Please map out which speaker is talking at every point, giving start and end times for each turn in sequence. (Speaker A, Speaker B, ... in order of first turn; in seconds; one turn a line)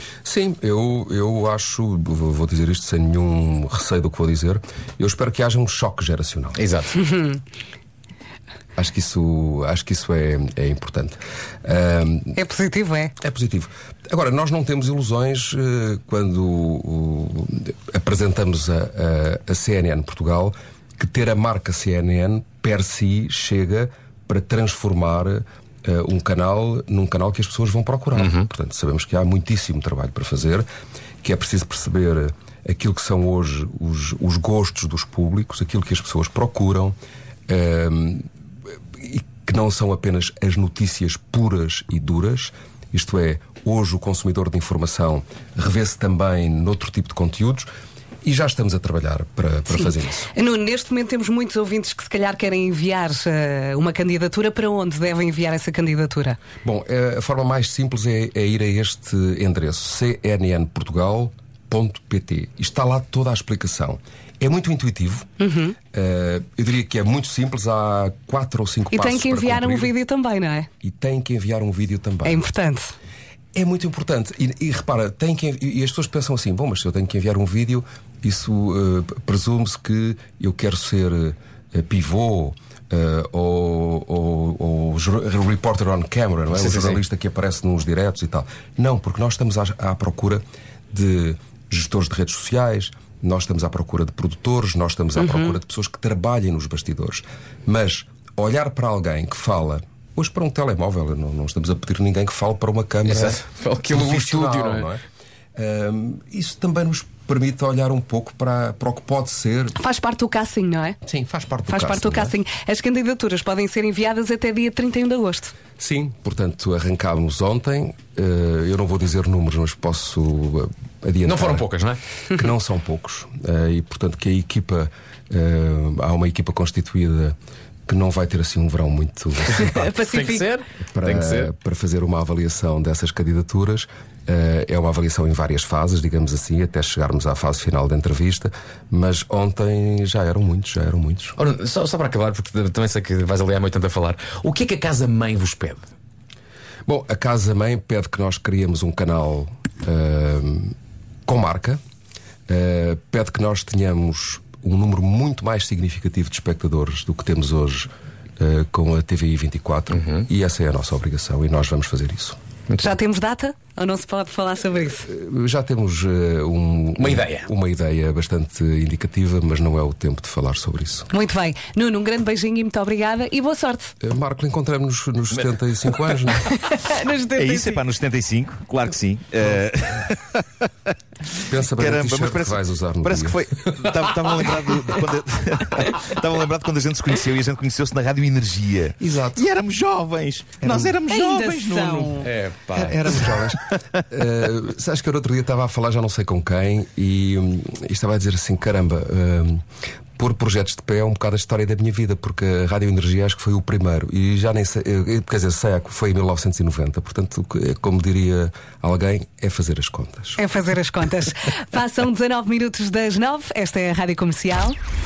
Speaker A: 0.2-6.6
Speaker B: 6.6-7.0
Speaker C: 7.0-7.4
Speaker A: 8.8-12.4
Speaker C: 12.3-13.1
Speaker A: 13.2-30.7
Speaker B: 28.2-28.5
Speaker A: 31.2-37.0
Speaker A: 37.5-38.3
Speaker A: 38.9-47.7
Speaker A: 48.2-50.3
Speaker C: 49.7-56.4
Speaker A: 56.6-65.3
Speaker C: 65.4-65.8
Speaker A: 65.9-69.9
Speaker C: 68.9-70.7
Speaker A: 70.8-72.4
Speaker C: 72.2-72.9
Speaker A: 73.5-105.0
Speaker B: 86.5-87.0
Speaker C: 95.2-95.5
Speaker B: 103.0-104.9
Speaker A: 105.6-109.8
Speaker C: 109.8-111.0
Speaker A: 111.0-112.4
Speaker C: 111.7-115.5
Speaker A: 115.8-121.7
Speaker B: 121.3-122.0
Speaker A: 122.3-127.4
Speaker A: 127.9-129.9
Speaker C: 129.6-130.5
Speaker B: 130.1-131.5
Speaker A: 130.9-141.4
Speaker B: 141.4-145.9
Speaker A: 146.9-150.7
Speaker A: 151.3-151.8
Speaker A: 152.5-162.4
Speaker B: 159.9-160.3
Speaker C: 162.8-165.1
Speaker A: 165.0-171.1
Speaker B: 167.0-167.5
Speaker C: 171.1-173.9
Speaker A: 174.0-176.6
Speaker C: 176.6-177.8
Speaker D: 177.4-192.3
Speaker A: 181.5-183.4
Speaker B: 184.1-184.7
Speaker A: 189.0-189.5
Speaker A: 190.6-191.0
Speaker C: 191.1-192.3
Speaker B: 192.2-193.2
Speaker A: 192.7-199.6
Speaker D: 193.2-193.8
Speaker A: 200.2-210.4
Speaker C: 210.4-214.8